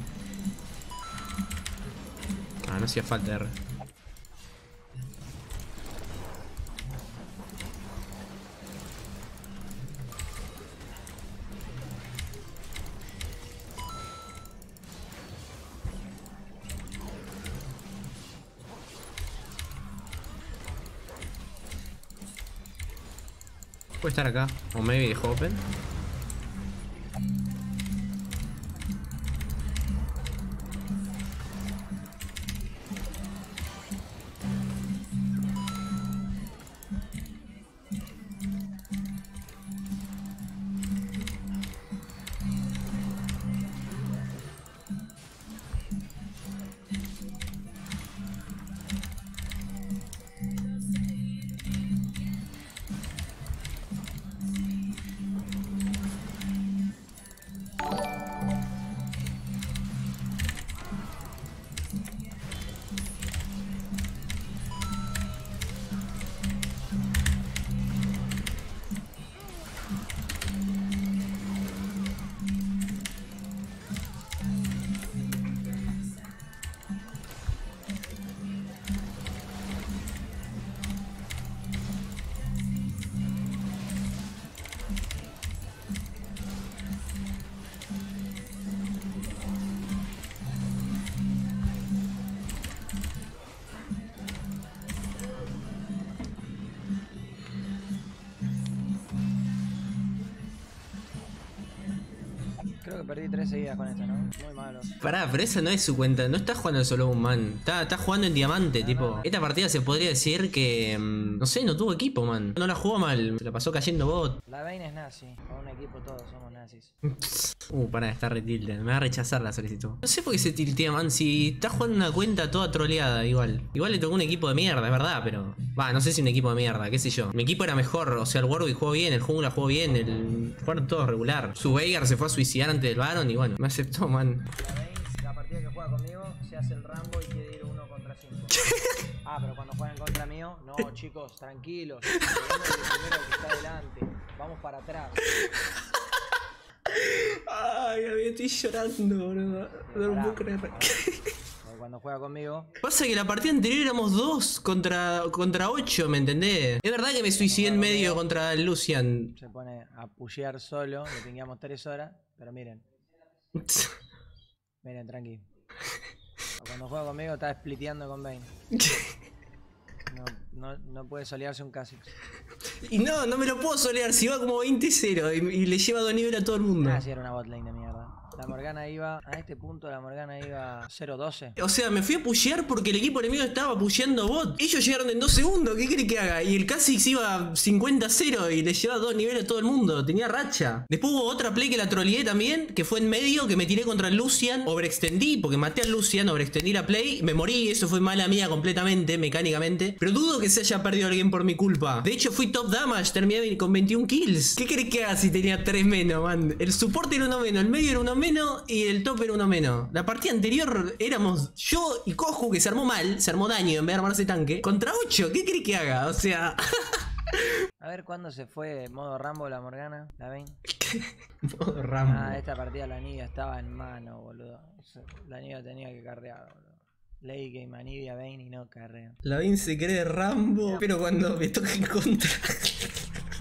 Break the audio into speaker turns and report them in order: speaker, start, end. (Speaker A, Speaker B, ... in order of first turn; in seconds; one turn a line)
Speaker A: 2.6-3.6
Speaker A: 24.0-25.7
Speaker B: 102.8-105.0
Speaker A: 105.0-114.4
Speaker B: 108.8-109.3
Speaker B: 114.5-116.9
Speaker A: 117.0-134.5
Speaker B: 134.6-138.6
Speaker A: 138.6-139.0
Speaker B: 139.2-145.3
Speaker A: 142.1-142.6
Speaker A: 145.3-146.0
Speaker A: 146.9-151.3
Speaker B: 149.9-151.1
Speaker B: 151.6-152.8
Speaker A: 152.8-159.3
Speaker B: 157.4-158.2
Speaker B: 159.4-162.8
Speaker A: 163.6-164.0
Speaker B: 164.8-165.4
Speaker B: 166.6-168.5
Speaker A: 168.7-169.2
Speaker B: 170.1-172.1
Speaker A: 172.8-177.0
Speaker B: 176.8-181.6
Speaker A: 181.6-217.5
Speaker B: 217.8-220.6
Speaker A: 220.7-222.4
Speaker B: 222.1-229.2
Speaker A: 229.2-233.0